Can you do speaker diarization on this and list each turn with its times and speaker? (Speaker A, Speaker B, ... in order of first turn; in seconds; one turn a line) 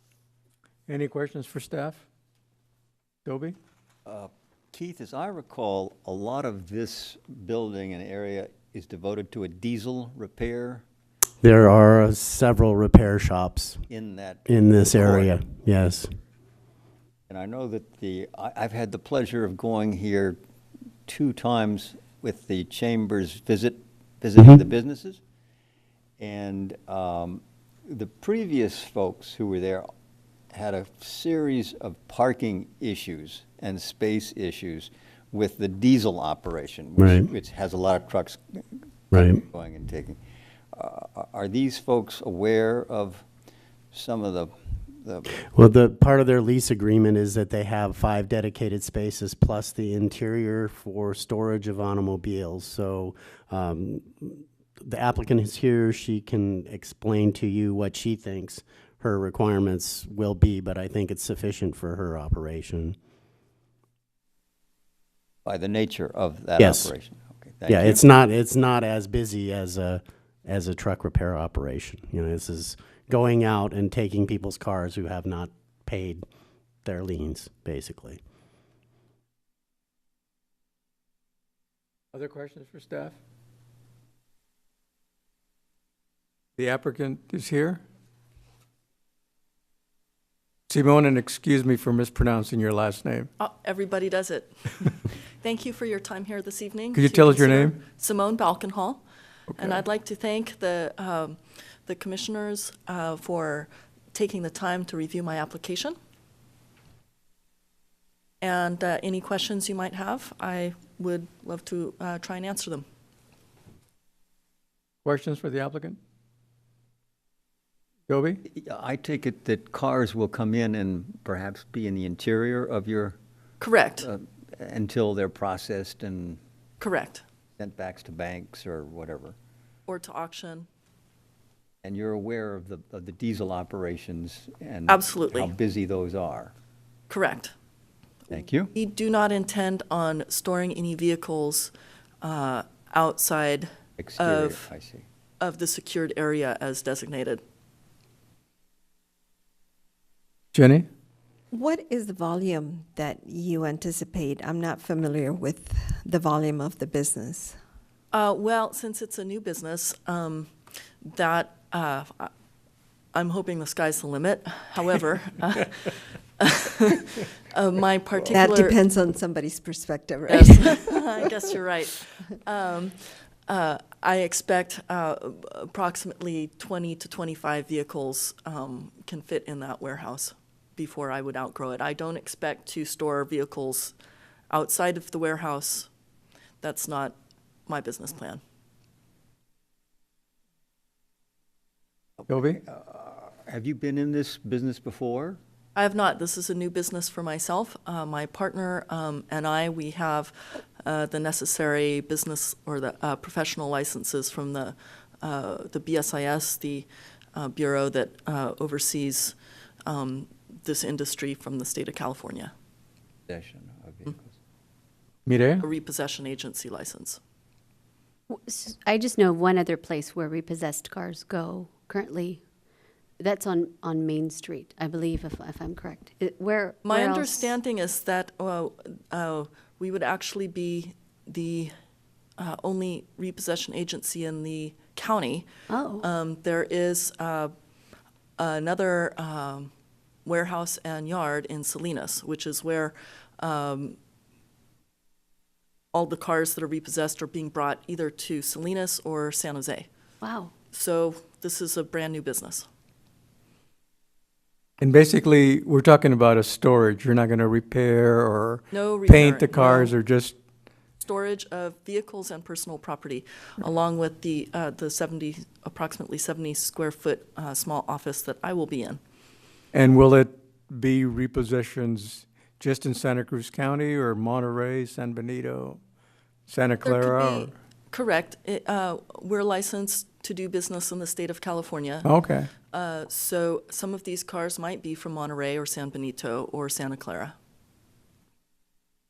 Speaker A: 0.9-2.0
Speaker A: 3.2-3.5
Speaker B: 4.0-10.8
Speaker C: 11.4-13.8
Speaker B: 13.9-15.3
Speaker C: 14.5-16.1
Speaker B: 17.3-20.4
Speaker B: 21.1-25.2
Speaker B: 26.2-29.9
Speaker B: 30.5-40.2
Speaker C: 37.0-37.3
Speaker C: 39.1-39.4
Speaker B: 40.7-43.2
Speaker B: 43.9-45.3
Speaker C: 45.5-63.0
Speaker B: 65.5-68.0
Speaker C: 66.6-66.9
Speaker C: 67.7-76.2
Speaker C: 76.8-78.2
Speaker A: 82.1-83.2
Speaker A: 86.6-87.8
Speaker A: 90.7-93.3
Speaker D: 93.4-94.6
Speaker D: 95.4-99.0
Speaker A: 96.9-97.8
Speaker D: 99.6-105.9
Speaker D: 108.4-112.8
Speaker A: 115.0-116.0
Speaker A: 118.1-118.4
Speaker B: 118.5-123.2
Speaker D: 123.6-124.1
Speaker B: 124.0-126.4
Speaker D: 126.8-127.2
Speaker B: 127.6-129.3
Speaker D: 129.9-130.7
Speaker B: 131.8-136.5
Speaker D: 134.9-135.5
Speaker D: 137.1-137.5
Speaker B: 138.3-138.7
Speaker D: 138.7-144.6
Speaker B: 144.0-145.1
Speaker D: 145.4-147.4
Speaker A: 150.5-150.9
Speaker E: 151.5-157.6
Speaker D: 158.1-160.5
Speaker D: 161.0-162.3
Speaker D: 163.1-168.8
Speaker E: 168.3-170.9
Speaker D: 170.3-172.9
Speaker D: 173.5-183.9
Speaker D: 184.5-185.9
Speaker D: 186.6-187.1
Speaker D: 187.7-188.4
Speaker A: 192.3-192.6
Speaker B: 192.5-195.4
Speaker D: 195.8-209.3
Speaker D: 209.8-212.5
Speaker B: 213.3-214.3
Speaker A: 215.2-215.7
Speaker D: 215.6-217.2
Speaker F: 218.3-222.4
Speaker F: 223.2-227.5
Speaker D: 226.8-231.7
Speaker D: 232.4-235.5
Speaker F: 235.7-236.1
Speaker D: 236.0-237.5
Speaker D: 238.4-239.7
Speaker D: 240.2-244.0
Speaker D: 245.9-249.9
Speaker F: 250.2-250.5
Speaker D: 250.7-252.7
Speaker A: 254.8-260.3
Speaker D: 258.7-259.9
Speaker D: 261.0-269.0
Speaker A: 269.7-275.8
Speaker A: 276.5-277.5
Speaker D: 276.8-282.1
Speaker A: 282.0-282.5
Speaker D: 282.7-287.3